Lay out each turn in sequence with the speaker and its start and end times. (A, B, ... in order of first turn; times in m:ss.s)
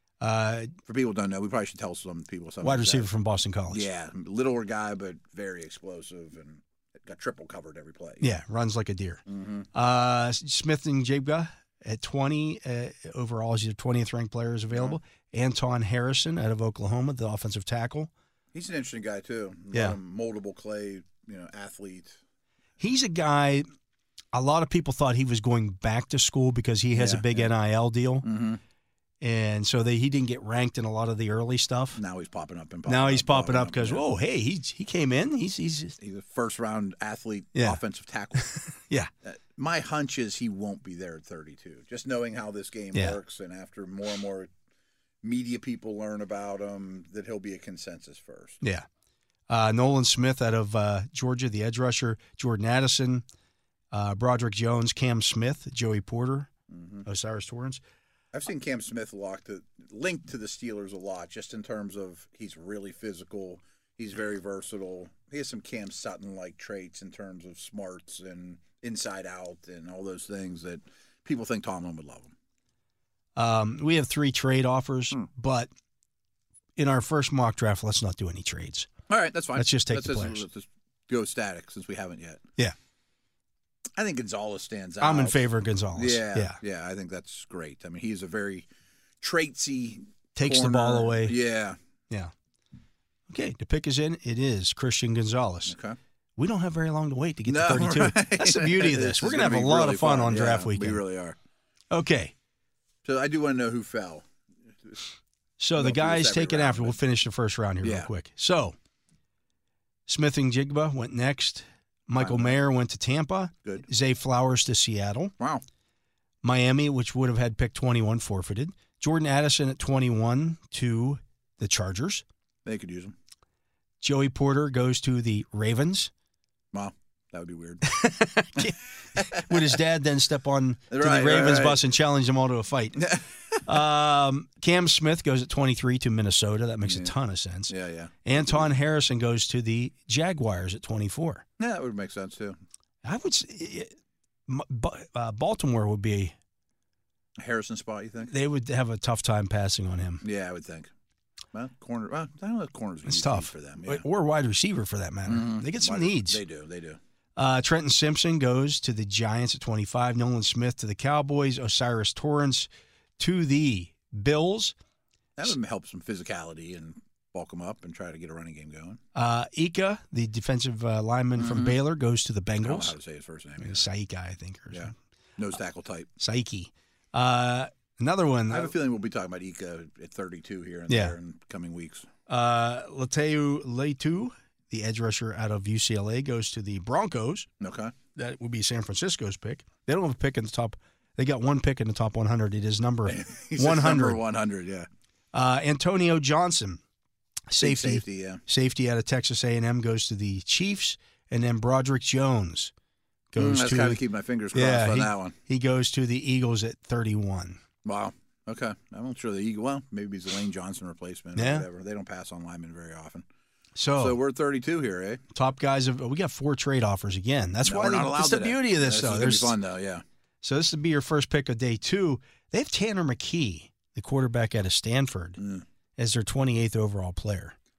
0:00.2-0:00.8 A
0:00.9-0:03.1 B
0:02.6-0:03.9 A
0:03.7-0:08.2 B
0:08.2-0:09.2 A
0:09.3-0:09.7 B
0:09.7-0:18.1 A
0:14.7-0:15.0 B
0:18.5-0:22.2 B
0:19.7-0:20.0 A
0:22.8-0:23.6 A
0:24.3-0:28.3 A
0:26.9-0:27.5 B
0:28.2-0:28.6 B
0:29.2-0:32.0 A
0:32.0-0:34.0 B
0:32.9-0:36.0 A
0:36.0-0:38.5 B
0:37.5-0:37.8 A
0:38.4-0:39.1 A
0:39.2-0:44.5 B
0:45.2-0:48.6 B
0:49.5-0:53.2 A
0:53.9-0:56.5 A
0:56.7-0:57.0 B
0:57.0-0:57.8 A
0:58.3-1:12.3 B
1:13.4-1:15.7 A
1:16.8-1:18.9 A
1:19.1-1:22.4 B
1:19.6-1:20.4 A
1:24.0-1:28.7 B
1:25.0-1:26.6 A
1:29.2-1:31.8 B
1:30.3-1:31.4 A
1:33.3-1:35.7 A
1:35.7-1:36.0 B
1:36.4-1:41.0 A
1:37.5-1:41.4 B
1:41.9-1:42.3 A
1:43.0-1:44.2 B
1:45.6-1:48.8 A
1:45.8-1:47.0 B
1:47.8-1:48.1 B
1:50.1-1:55.3 A
1:52.2-1:52.6 B
1:55.4-1:55.6 B
1:56.4-2:02.2 A
2:02.6-2:03.1 B
2:04.0-2:06.1 A
2:06.7-2:07.9 B
2:07.8-2:17.7 A
2:08.6-2:09.8 B
2:10.9-2:11.8 B
2:13.0-2:13.6 B
2:16.8-2:17.1 B
2:17.7-2:18.7 B
2:18.2-2:21.4 A
2:21.6-2:22.6 B
2:23.0-2:23.9 A
2:24.5-2:26.3 A
2:27.4-2:28.3 B
2:28.3-2:30.2 A
2:30.2-2:30.9 B
2:31.5-2:34.0 B
2:33.0-2:36.4 A
2:35.2-2:37.0 B
2:37.4-2:42.7 A
2:43.2-2:44.7 A
2:45.4-2:49.0 B
2:49.1-2:53.0 A
2:51.4-2:51.8 B
2:52.6-2:53.8 B
2:53.6-2:54.9 A
2:54.7-2:56.1 B
2:56.2-2:58.7 A
2:58.5-3:02.1 B
3:00.9-3:01.2 A
3:02.3-3:07.5 A
3:07.6-3:07.9 B
3:08.1-3:14.2 A
3:13.0-3:14.9 B
3:15.3-3:16.8 A
3:17.5-3:22.7 A
3:17.6-3:18.4 B
3:23.3-3:24.0 A
3:23.4-3:25.4 B
3:24.5-3:27.6 A
3:27.8-3:33.2 B
3:31.4-3:31.7 A
3:33.8-3:34.2 A
3:34.0-3:35.2 B
3:35.3-3:39.5 A
3:37.6-3:40.0 B
3:40.4-3:45.4 A
3:45.4-3:45.6 B
3:46.0-3:47.6 A